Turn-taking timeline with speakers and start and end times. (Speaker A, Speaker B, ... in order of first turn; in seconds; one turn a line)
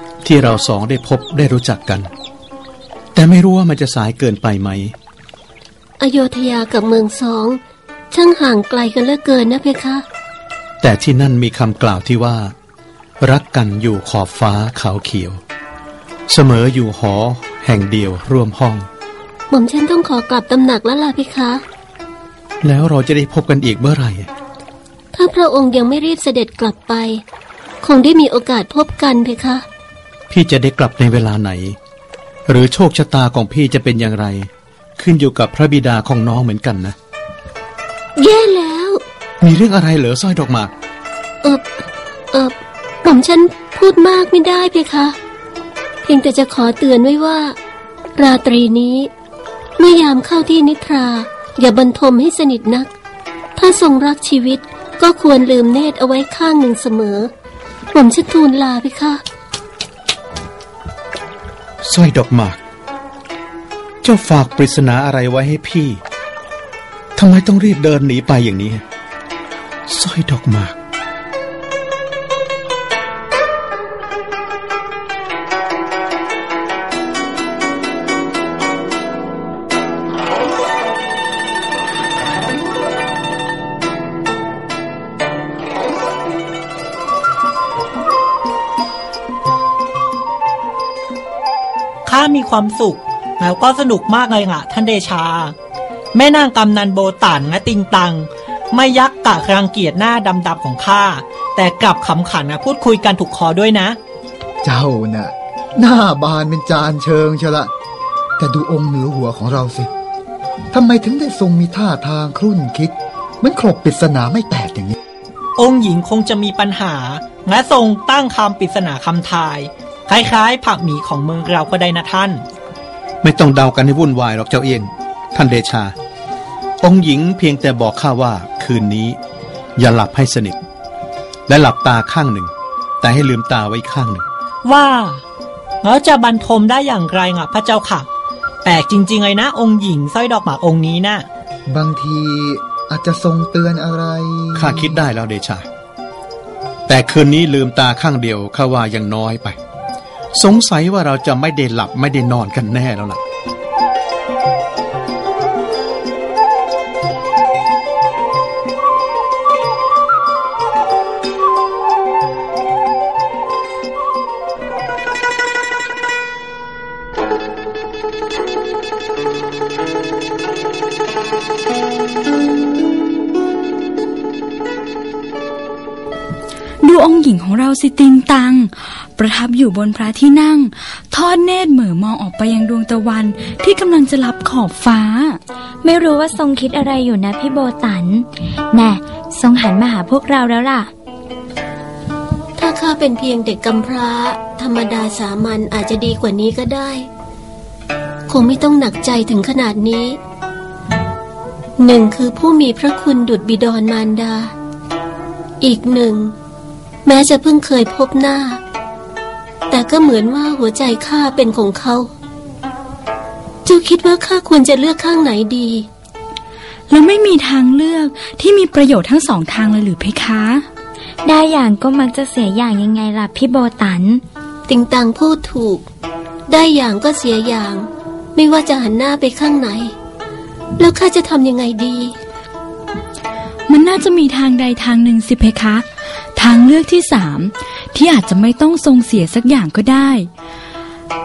Speaker A: 0.2-2.1
Speaker A: 3.1-4.9
Speaker B: 6.0-7.6
Speaker B: 8.1-10.0
Speaker A: 10.8-12.5
Speaker A: 13.2-15.4
Speaker A: 16.3-18.9
Speaker B: 19.5-21.6
Speaker A: 22.6-24.3
Speaker B: 25.1-27.2
Speaker B: 27.8-29.6
Speaker A: 30.3-31.8
Speaker A: 32.5-37.0
Speaker B: 38.2-39.0
Speaker A: 39.4-40.7
Speaker B: 42.3-45.2
Speaker B: 46.0-47.6
Speaker B: 48.2-49.1
Speaker B: 49.8-52.9
Speaker B: 53.6-57.3
Speaker B: 57.9-59.2
Speaker A: 61.8-62.6
Speaker A: 64.0-66.0
Speaker A: 67.2-68.8
Speaker A: 69.9-70.8
Speaker C: 92.1-95.5
Speaker C: 96.1-104.0
Speaker D: 104.6-107.7
Speaker D: 108.4-109.9
Speaker D: 110.7-115.0
Speaker C: 115.6-122.4
Speaker A: 123.2-125.9
Speaker A: 126.8-129.2
Speaker A: 129.8-130.6
Speaker A: 131.5-134.2
Speaker C: 134.7-135.2
Speaker C: 135.8-138.1
Speaker C: 138.7-141.3
Speaker D: 141.7-145.0
Speaker A: 144.6-145.7
Speaker A: 146.9-149.6
Speaker A: 150.3-153.2
Speaker E: 176.8-185.4
Speaker F: 185.8-190.9
Speaker B: 192.6-197.1
Speaker B: 198.3-200.2
Speaker B: 201.8-204.5
Speaker B: 205.6-206.3
Speaker B: 207.1-208.6
Speaker B: 209.7-212.1
Speaker B: 213.7-215.9
Speaker E: 216.9-220.7
Speaker F: 221.2-224.2
Speaker B: 224.7-225.8
Speaker B: 226.5-229.9
Speaker B: 230.8-232.2
Speaker E: 233.7-240.3